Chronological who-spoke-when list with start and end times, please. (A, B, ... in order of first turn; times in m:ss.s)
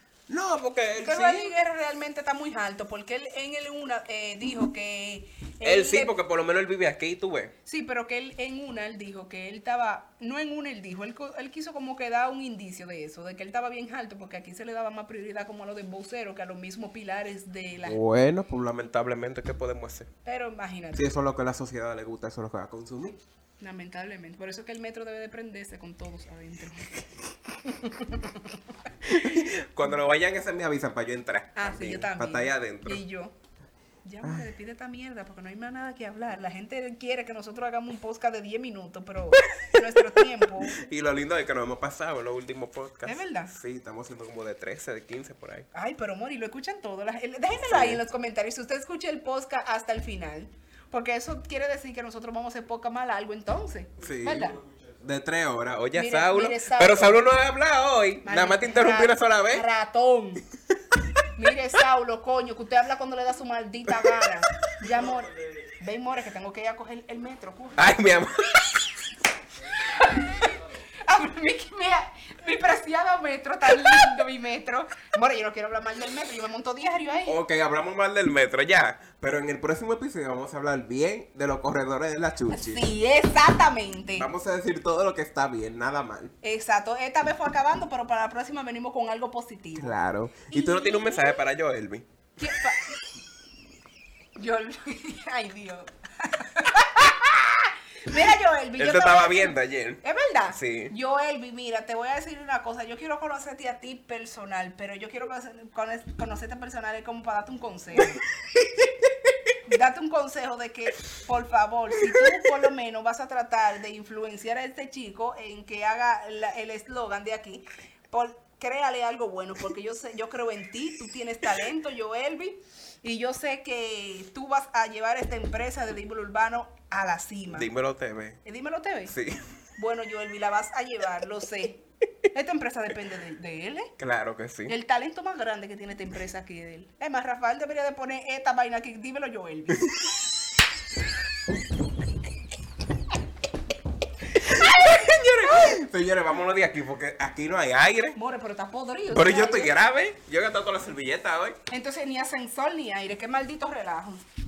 0:00.3-0:01.5 A
0:01.0-0:06.1 B
0:05.6-0:07.5 A
0:07.6-0:18.0 B
0:17.8-0:20.1 A
0:20.2-0:21.1 B
0:20.9-0:23.2 A
0:23.6-0:28.6 B
0:29.0-0:33.0 A
0:31.6-0:33.3 B
0:34.0-0:40.7 B
0:40.7-0:45.7 A
0:43.0-0:43.5 B
0:45.7-0:54.6 B
0:47.6-0:48.0 A
0:54.0-0:59.6 A
0:55.9-0:57.2 B
0:58.2-1:00.4 B
1:01.4-1:07.9 B
1:07.8-1:08.8 A
1:09.9-1:10.5 B
1:11.0-1:17.4 B
1:17.2-1:22.8 A
1:22.5-1:24.3 B
1:24.2-1:26.3 A
1:26.4-1:30.0 B
1:29.8-1:32.1 A
1:30.5-1:31.4 B
1:32.4-1:32.8 B
1:34.4-1:48.2 B
1:38.8-1:40.9 A
1:49.7-2:07.7 B
2:07.5-2:08.4 A
2:08.4-2:09.1 B
2:09.0-2:09.3 A
2:09.8-2:13.9 B
2:14.0-2:14.7 A
2:14.7-2:19.8 B
2:24.3-2:28.2 A
2:28.1-2:29.8 B
2:29.1-2:31.6 A
2:31.7-2:34.2 B